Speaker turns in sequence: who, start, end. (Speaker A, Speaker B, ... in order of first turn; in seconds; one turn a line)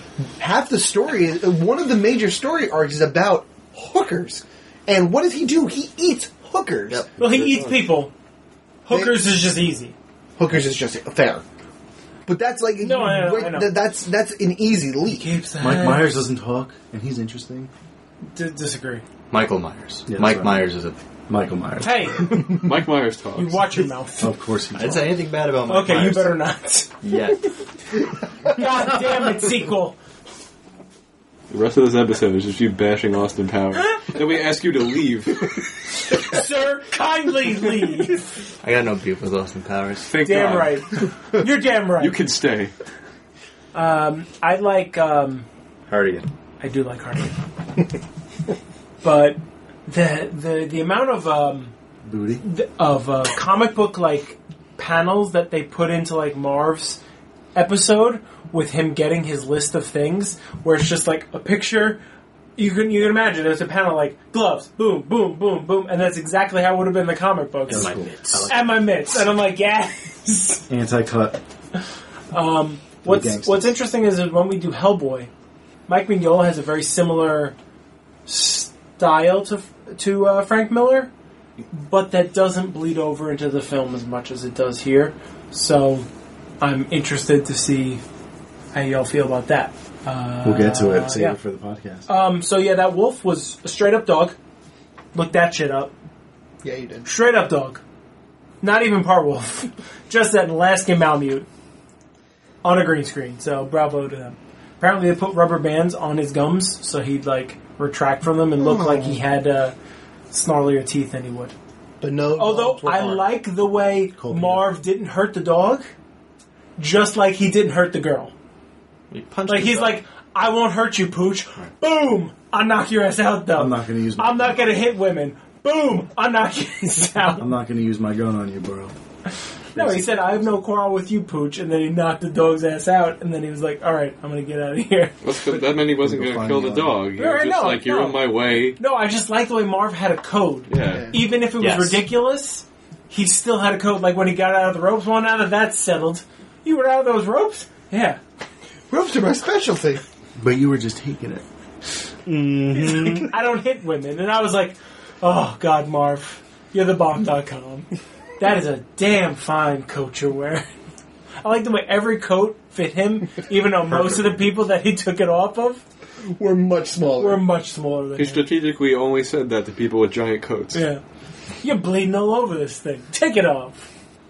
Speaker A: 0.4-7.0
Speaker B: 7.2-8.1
Speaker C: 7.2-7.7
Speaker B: 8.8-9.9
Speaker A: 8.9-9.2
Speaker A: 10.4-11.4
Speaker A: 12.2-15.2
Speaker B: 12.8-13.7
Speaker B: 15.1-16.2
Speaker D: 15.6-17.7
Speaker B: 18.3-19.0
Speaker E: 19.3-21.0
Speaker D: 20.1-20.6
Speaker D: 21.3-22.5
Speaker B: 21.8-22.5
Speaker C: 22.5-23.6
Speaker B: 23.3-24.3
Speaker D: 24.2-25.2
Speaker E: 24.7-26.4
Speaker B: 25.6-26.9
Speaker E: 27.0-27.4
Speaker B: 28.4-30.0
Speaker C: 31.5-35.5
Speaker B: 33.8-34.1
Speaker B: 36.1-38.3
Speaker E: 38.6-40.1
Speaker C: 40.0-40.8
Speaker B: 40.2-42.2
Speaker C: 42.0-42.7
Speaker B: 43.7-45.5
Speaker E: 45.9-46.3
Speaker B: 46.6-47.4
Speaker B: 49.0-51.7
Speaker D: 52.0-52.4
Speaker B: 52.4-57.0
Speaker B: 57.5-62.0
Speaker B: 62.6-67.9
Speaker E: 67.7-68.9
Speaker D: 67.7-68.5
Speaker B: 68.5-70.6
Speaker D: 70.7-71.4
Speaker B: 72.3-75.3
Speaker D: 73.0-73.7
Speaker B: 75.9-77.5
Speaker B: 78.2-81.1
Speaker B: 81.7-86.1
Speaker B: 86.6-88.0
Speaker B: 88.7-91.4
Speaker D: 90.4-92.1
Speaker B: 92.1-94.3
Speaker B: 95.1-95.9
Speaker A: 96.6-97.1
Speaker B: 97.0-97.8
Speaker B: 98.6-101.5
Speaker B: 102.6-109.7
Speaker A: 108.6-109.2
Speaker B: 110.3-111.5
Speaker A: 112.0-113.3
Speaker B: 112.3-115.9
Speaker D: 114.2-114.7
Speaker B: 116.8-118.3
Speaker E: 119.1-120.0
Speaker B: 119.5-127.5
Speaker D: 123.5-124.8
Speaker D: 127.4-128.9
Speaker D: 129.7-130.5
Speaker B: 129.7-135.1
Speaker C: 135.2-138.8
Speaker D: 135.6-137.0
Speaker B: 137.2-148.2
Speaker C: 140.7-141.1
Speaker A: 140.9-141.2
Speaker E: 141.6-142.0
Speaker A: 148.9-150.0
Speaker D: 150.4-151.4
Speaker D: 152.2-153.3
Speaker B: 152.7-157.9
Speaker B: 158.4-160.7
Speaker B: 161.4-165.8
Speaker A: 166.2-167.4
Speaker B: 167.2-168.4
Speaker C: 168.2-170.8
Speaker B: 170.7-171.0
Speaker B: 171.6-173.9